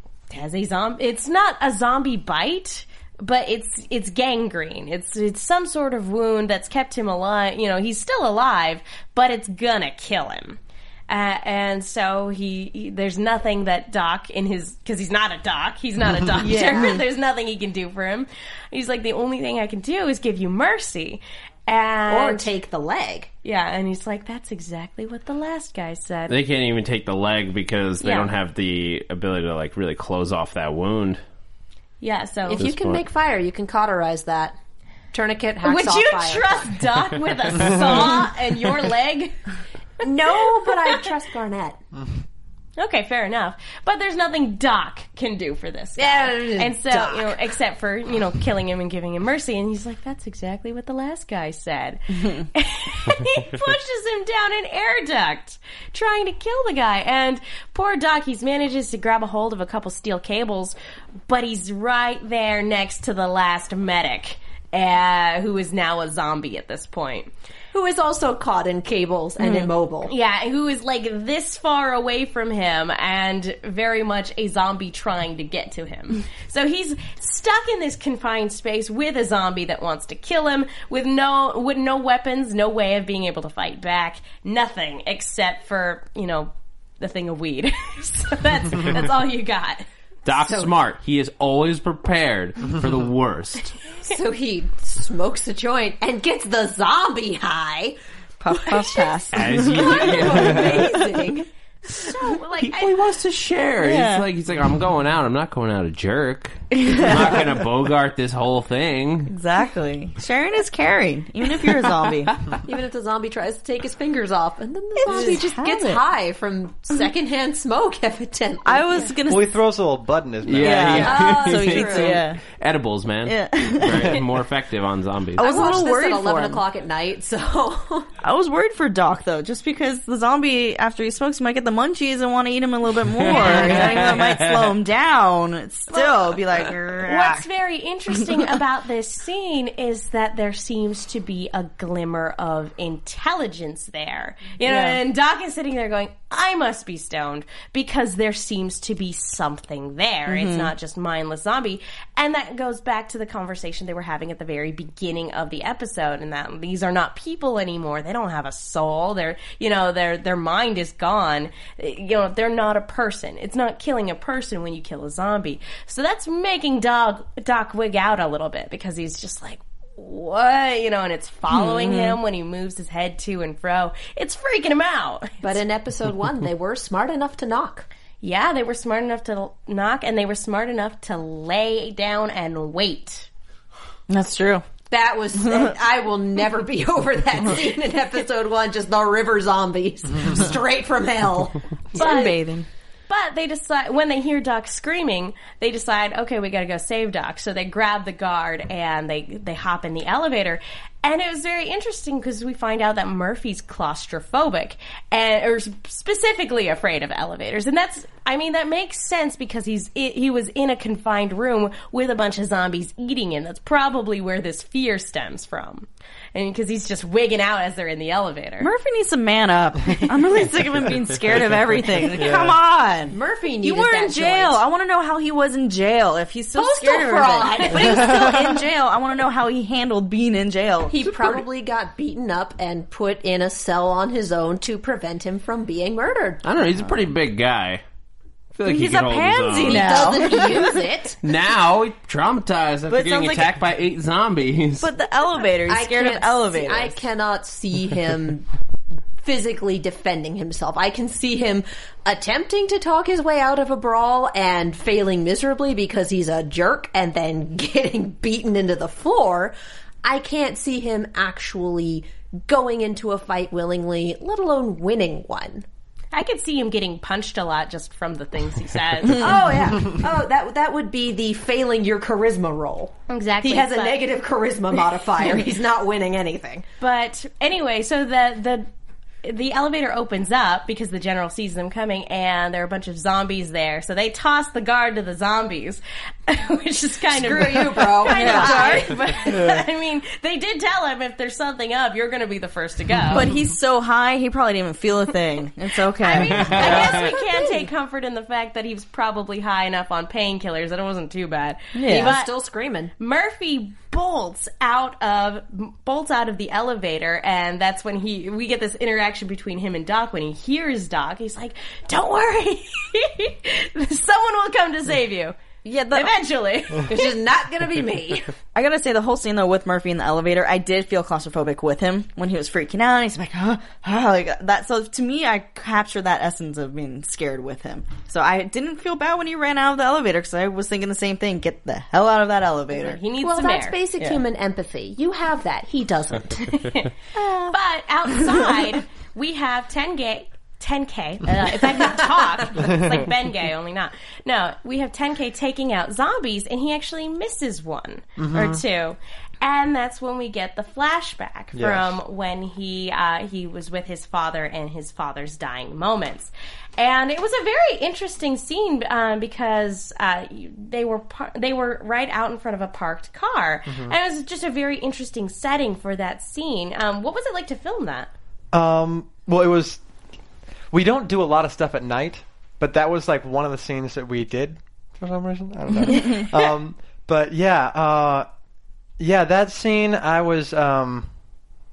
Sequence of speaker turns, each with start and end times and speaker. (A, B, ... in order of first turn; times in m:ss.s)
0:00.3-0:22.5 A
0:16.4-0:17.0 B
0:22.1-0:23.3 B
0:23.4-0:26.4 A
0:26.3-0:31.2 C
0:28.0-0:28.3 A
0:32.0-0:32.6 A
0:32.5-0:34.6 B
0:32.5-0:33.0 C
0:35.1-0:36.7 B
0:35.6-0:39.4 A
0:40.0-0:41.8 B
0:40.0-0:41.1 A
0:42.8-1:00.7 A
0:46.0-0:47.5 B
1:01.3-1:07.3 A
1:07.7-1:10.1 B
1:09.4-1:29.8 A
1:30.2-1:33.8 C
1:30.4-1:30.7 B
1:34.0-1:38.0 B
1:38.4-1:40.7 D
1:38.5-1:42.5 B
1:39.3-1:41.0 C
1:41.9-1:42.9 A
1:42.6-1:49.3 C
1:43.8-1:44.3 D
1:46.7-1:47.4 D
1:49.3-1:52.4 D
1:52.6-1:59.0 B
1:55.0-1:56.0 D
1:58.6-1:59.5 D
1:59.3-2:01.2 E
2:00.4-2:05.7 C
2:00.6-2:02.4 D
2:01.0-2:02.2 B
2:03.2-2:04.2 D
2:05.4-2:06.6 D
2:05.4-2:08.1 B
2:08.2-2:17.5 D
2:13.1-2:14.8 C
2:13.3-2:14.1 A
2:15.9-2:16.3 A
2:17.0-2:55.6 A
2:24.6-2:25.0 D
2:30.3-2:30.7 D
2:51.5-2:52.2 D
2:55.4-2:57.9 B
2:58.2-3:03.3 A
3:04.1-3:04.6 D
3:04.9-3:12.1 B
3:11.9-3:12.7 D
3:12.0-3:12.4 A
3:13.1-3:38.7 A
3:38.6-3:51.3 D
3:42.2-3:42.6 E
3:43.1-3:44.6 B
3:46.5-3:48.6 B
3:50.9-3:56.4 B
3:56.4-3:57.8 C
3:58.5-4:00.4 C
3:58.6-4:00.8 D
3:59.6-4:01.2 B
4:01.2-4:04.9 C
4:02.9-4:03.6 D
4:04.8-4:07.0 D
4:05.7-4:08.5 B
4:09.2-4:25.6 B
4:26.1-4:29.3 A
4:29.1-4:36.6 B
4:33.1-4:34.0 A
4:36.8-4:38.7 A
4:39.2-4:53.3 A
4:47.1-4:49.0 B
4:48.0-4:48.9 D
4:53.1-4:56.8 D
4:56.0-5:02.3 A
4:56.1-4:57.0 C
4:56.6-4:57.6 B
5:01.7-5:02.2 D
5:01.9-5:02.9 B
5:03.0-5:15.4 A
5:15.6-5:16.1 D
5:15.9-5:17.1 A
5:16.8-5:18.4 B
5:18.5-5:33.0 D
5:32.7-5:33.8 A
5:33.2-5:36.7 B
5:36.5-5:36.9 A
5:37.2-5:37.5 D
5:37.5-6:08.1 A
5:42.6-5:43.0 E
5:48.2-5:48.6 E
5:51.5-5:52.0 E
6:03.7-6:03.9 E
6:08.5-6:09.8 E
6:10.7-6:18.3 E
6:19.0-6:21.1 E